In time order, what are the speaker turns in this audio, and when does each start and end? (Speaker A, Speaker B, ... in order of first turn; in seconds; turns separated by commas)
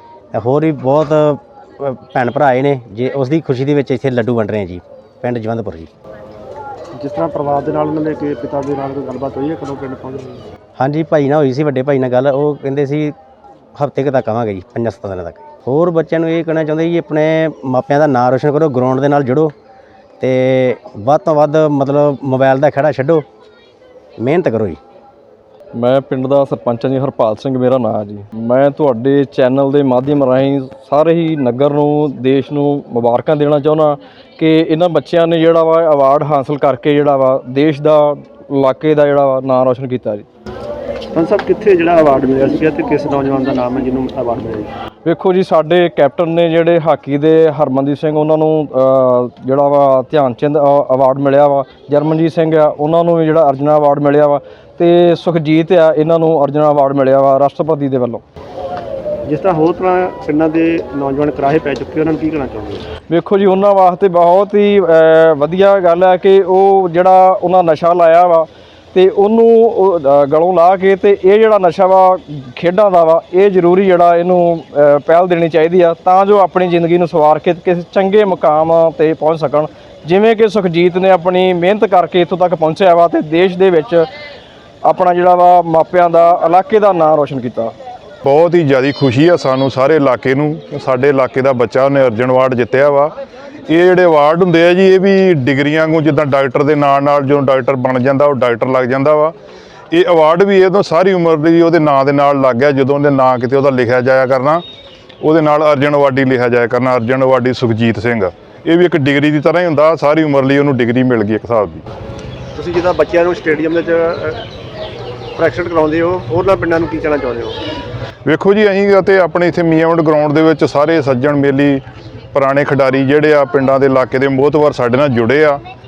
Speaker A: 0.3-5.9, Speaker B: 6.9-10.4, Speaker A: 10.8-13.1, Speaker A: 13.8-19.5, Speaker A: 20.2-23.2, Speaker A: 24.2-24.8, Speaker C: 25.7-40.2, Speaker B: 41.1-44.7, Speaker C: 45.0-58.2, Speaker B: 59.2-62.9, Speaker C: 63.1-84.1, Speaker C: 84.8-87.7, Speaker D: 88.2-93.1, Speaker D: 93.7-99.3, Speaker D: 99.9-104.6, Speaker D: 105.2-111.8, Speaker B: 112.5-114.4, Speaker B: 115.4-117.6, Speaker D: 118.2-121.8, Speaker D: 122.3-125.6